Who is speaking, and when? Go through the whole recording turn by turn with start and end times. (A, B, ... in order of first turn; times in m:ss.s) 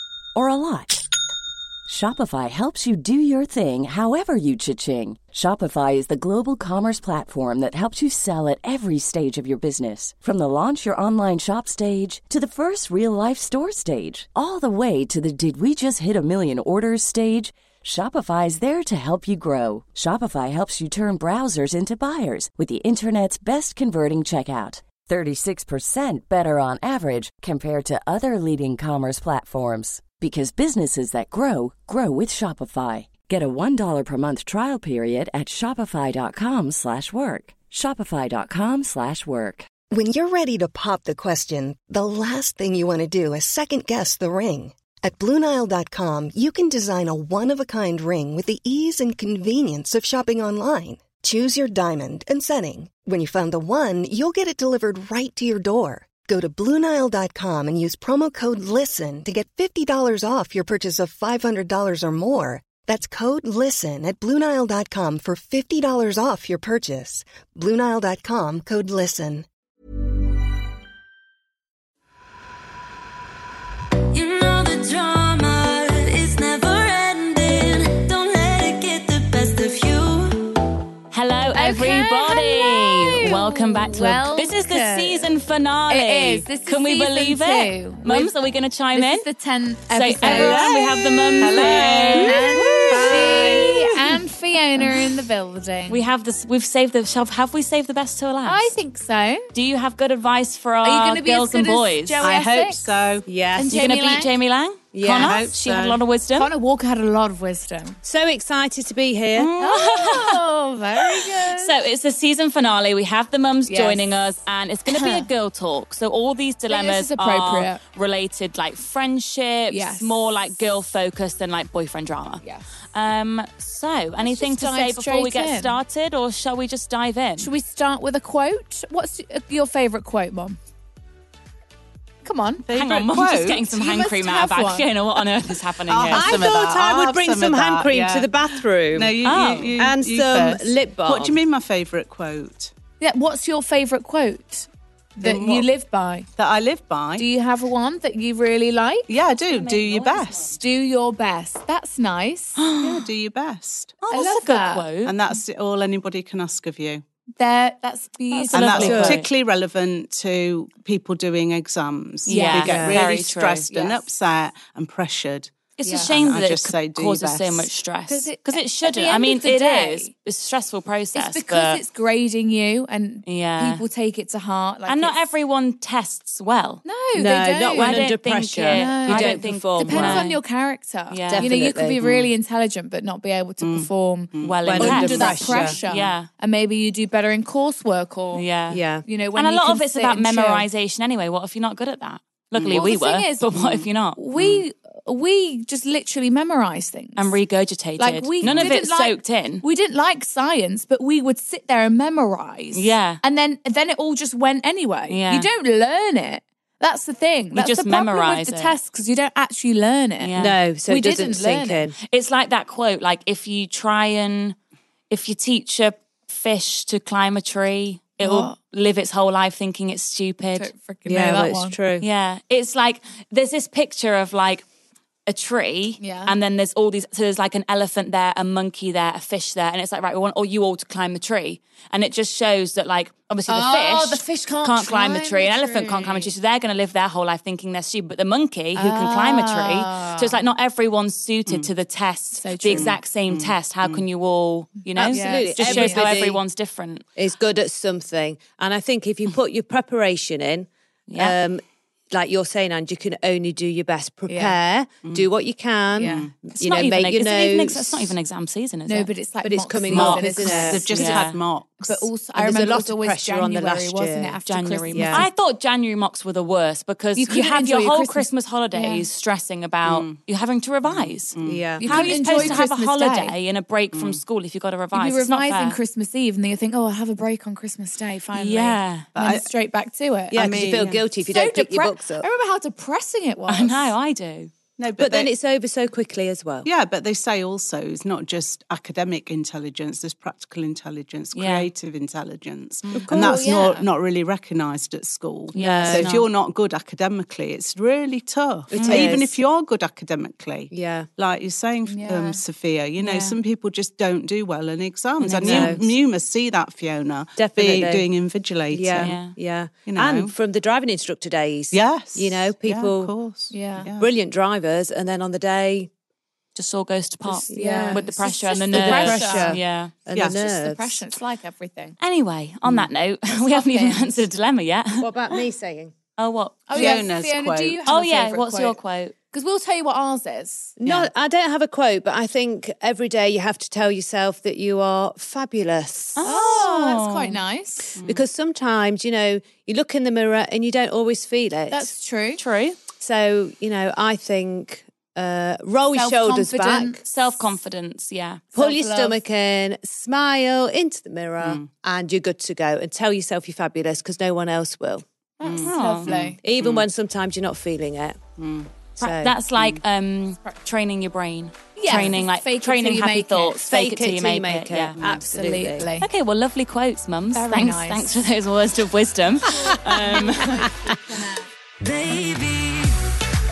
0:00.3-0:01.0 A
0:01.9-0:39.7 A
0:39.9-1:09.4 B
1:14.1-1:20.6 C
1:21.1-1:29.2 D
1:21.5-1:25.3 E
1:25.9-1:28.3 E
1:28.9-1:36.0 E
1:29.9-1:33.7 D
1:30.3-1:30.7 F
1:31.4-1:34.1 F
1:35.9-1:38.7 D
1:38.4-1:39.5 E
1:39.5-1:42.2 D
1:40.8-1:42.9 E
1:42.2-1:43.2 F
1:43.2-1:43.8 G
1:43.6-1:44.3 E
1:43.7-1:46.5 D
1:44.9-1:45.4 G
1:45.2-1:46.0 F
1:46.3-1:48.0 E
1:48.0-1:49.5 G
1:49.4-1:50.4 D
1:49.6-1:51.8 E
1:51.0-2:07.5 D
1:53.7-1:54.0 E
1:54.9-1:55.3 E
1:56.7-1:57.8 E
1:59.7-2:00.2 E
2:02.4-2:02.6 E
2:04.2-2:05.8 E
2:07.4-2:10.6 E
2:12.2-2:12.7 E
2:12.6-2:13.7 F
2:12.7-2:16.3 D
2:13.7-2:14.8 E
2:15.9-2:18.3 F
2:16.1-2:19.2 G
2:18.9-2:22.7 F
2:19.2-2:19.8 D
2:19.8-2:21.4 G
2:23.0-2:26.3 E
2:25.2-2:25.7 F
2:26.4-2:27.3 F
2:27.2-2:29.1 E
2:29.1-2:30.5 F
2:29.5-2:30.5 D
2:30.5-2:32.6 E
2:32.6-2:33.1 D
2:32.8-2:34.2 F
2:34.1-2:34.9 E
2:34.2-2:35.2 D
2:34.9-2:37.0 F
2:37.4-2:39.1 E
2:38.3-2:39.3 D
2:38.5-2:47.7 F
2:38.8-2:39.2 G
2:42.2-2:43.7 D
2:42.3-2:42.8 E
2:42.5-2:43.0 G
2:43.7-2:44.0 E
2:45.8-2:51.8 D
2:45.8-2:46.2 E
2:48.1-2:50.1 E
2:51.1-2:55.2 E
2:53.2-2:53.8 D
2:54.8-2:56.8 D
2:56.8-3:08.5 E
2:57.1-3:00.3 G
2:57.7-3:00.4 D
3:01.1-3:01.5 D
3:01.3-3:02.0 G
3:02.0-3:02.3 F
3:03.6-3:05.3 F
3:04.4-3:06.3 D
3:04.6-3:05.8 G
3:08.3-3:08.8 D
3:08.7-3:09.0 G
3:09.0-3:10.7 E
3:09.3-3:14.2 D
3:12.6-3:12.8 F
3:12.7-3:13.6 E
3:14.2-3:17.4 E
3:14.4-3:14.6 F
3:17.2-3:19.6 D
3:18.0-3:31.8 E
3:18.4-3:18.8 F
3:22.7-3:23.2 D
3:25.1-3:25.5 D
3:27.5-3:28.8 D
3:30.2-3:30.5 D
3:30.4-3:31.9 G
3:32.0-3:34.6 D
3:35.1-3:40.7 D
3:38.2-3:38.5 E
3:40.5-3:41.8 E
3:41.0-3:42.0 G
3:42.0-3:44.6 D
3:45.3-4:07.0 D
3:46.0-3:46.3 E
3:53.5-3:56.3 E
3:58.8-4:00.4 E
4:02.4-4:03.0 E
4:02.7-4:04.0 F
4:05.0-4:06.4 G
4:05.1-4:06.1 E
4:07.2-4:18.1 G
4:11.1-4:11.4 D
4:14.3-4:14.6 E
4:16.0-4:16.3 E
4:16.0-4:16.4 F
4:16.5-4:19.1 D
4:18.9-4:21.2 E
4:19.4-4:21.2 G
4:19.9-4:21.4 D
4:19.9-4:22.1 F
4:21.8-4:25.3 E
4:22.3-4:24.4 G
4:24.4-4:35.8 D
4:24.9-4:25.3 G
4:27.2-4:29.1 E
4:29.8-4:30.2 F
4:30.8-4:32.6 F
4:31.4-4:32.6 G
4:31.8-4:33.3 E
4:33.9-4:34.2 F
4:34.9-4:43.9 E
4:38.3-4:39.1 D
4:39.1-4:39.5 F
4:40.3-4:42.3 G
4:40.4-4:41.0 F
4:43.5-4:44.5 D
4:44.8-4:45.3 F
4:45.0-4:46.7 G
4:46.6-5:09.3 F
4:51.3-4:51.7 D
4:52.9-4:53.5 G
4:53.2-4:53.8 E
4:55.5-4:56.2 G
4:55.5-4:56.2 D
4:58.7-4:59.4 G
4:58.7-4:59.1 D
5:00.7-5:01.1 G
5:01.8-5:02.4 E
5:03.0-5:03.3 E
5:05.3-5:05.8 D
5:05.4-5:05.8 G
5:07.4-5:08.1 G
5:08.7-5:13.1 G
5:09.0-5:09.4 D
5:09.8-5:10.3 F
5:11.7-5:14.1 F
5:13.5-5:13.9 E
5:14.0-5:15.9 G
5:16.5-5:20.0 D
5:17.3-5:19.6 E
5:17.5-5:18.0 G
5:18.7-5:21.0 G
5:20.3-5:22.0 E
5:22.0-5:25.4 D
5:23.3-5:24.2 E
5:25.0-5:25.9 G
5:26.2-5:27.0 D
5:26.7-5:28.8 E
5:26.7-5:27.8 F
5:27.8-5:29.1 D
5:29.3-5:30.8 E
5:30.8-5:36.2 G
5:36.2-5:37.4 D
5:36.2-5:38.0 E
5:38.0-5:38.2 F
5:38.0-5:41.9 G
5:41.7-5:42.4 E
5:42.4-5:42.8 D
5:43.0-5:47.0 G
5:45.9-5:47.0 E
5:47.0-5:48.4 D
5:48.5-5:49.2 E
5:48.6-5:55.0 G
5:51.4-5:51.7 F
5:55.4-5:56.4 E
5:55.4-5:56.9 F
5:55.6-5:56.1 D
5:56.4-5:58.2 G
5:58.4-5:58.7 F
5:59.0-5:59.4 G
5:59.0-6:05.0 D
5:59.6-5:59.8 F
6:01.8-6:03.8 E
6:03.7-6:05.9 G
6:05.0-6:06.0 E
6:06.0-6:10.7 D
6:07.3-6:08.1 E
6:10.1-6:11.4 E
6:11.8-6:13.0 C